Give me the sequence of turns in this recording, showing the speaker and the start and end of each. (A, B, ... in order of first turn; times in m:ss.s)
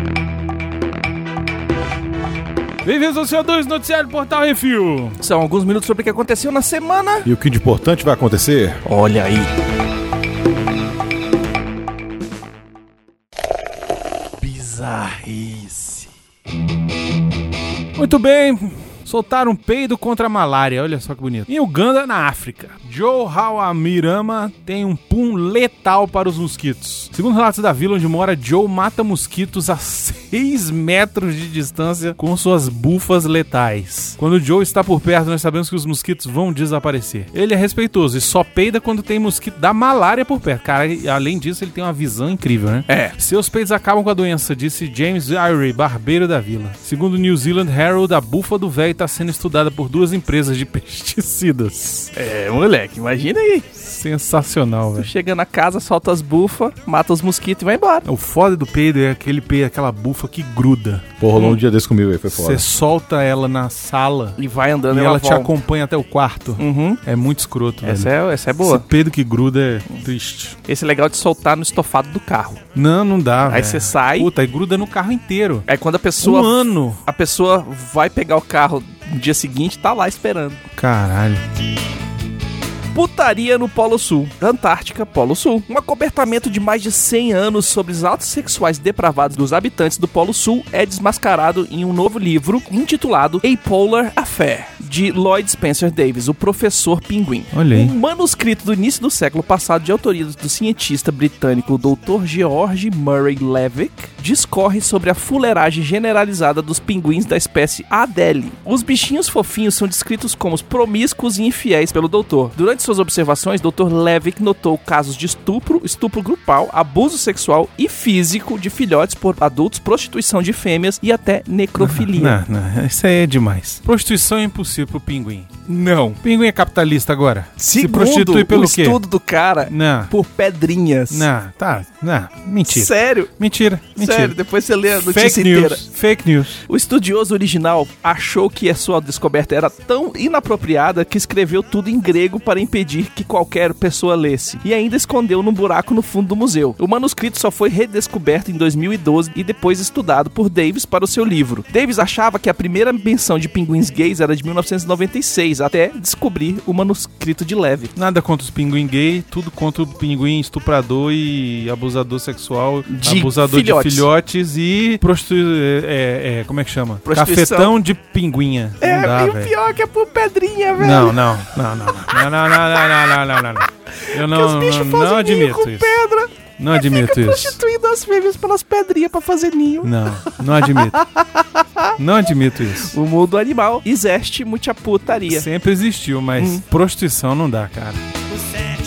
0:02.8-0:05.2 A
0:05.2-0:07.2 B
0:07.2-0:08.8 C
0:08.8-0:09.5 B
0:14.4-0:16.1 A
0:18.0-0:52.1 A
0:42.9-0:43.1 B
0:52.1-0:53.7 B
0:53.8-0:55.1 A
0:55.0-0:58.0 B
0:58.0-1:01.0 A
1:01.2-1:02.6 C
1:02.3-1:04.4 A
1:04.4-1:05.5 B
1:04.9-1:10.6 A
1:06.6-1:07.0 B
1:07.8-1:08.8 B
1:10.7-1:12.6 B
1:12.8-1:15.7 A
1:13.5-1:14.3 B
1:15.7-1:20.6 B
1:16.2-1:17.0 A
1:20.8-1:21.4 A
1:22.9-2:02.4 B
1:37.5-1:37.9 A
2:01.8-2:05.5 A
2:05.7-2:06.2 B
2:06.2-2:09.0 A
2:07.6-2:11.3 B
2:09.7-2:10.1 A
2:11.1-2:14.4 A
2:12.7-2:13.3 B
2:14.0-2:15.8 B
2:15.0-2:16.6 A
2:16.7-2:37.9 B
2:38.0-2:49.5 A
2:42.9-2:44.1 B
2:47.0-2:47.7 B
2:48.8-2:51.2 B
2:50.8-2:56.0 A
2:54.0-2:59.9 B
2:56.6-2:57.6 A
2:59.8-3:01.0 A
3:02.0-3:02.9 A
3:02.8-3:05.4 B
3:05.3-3:08.0 A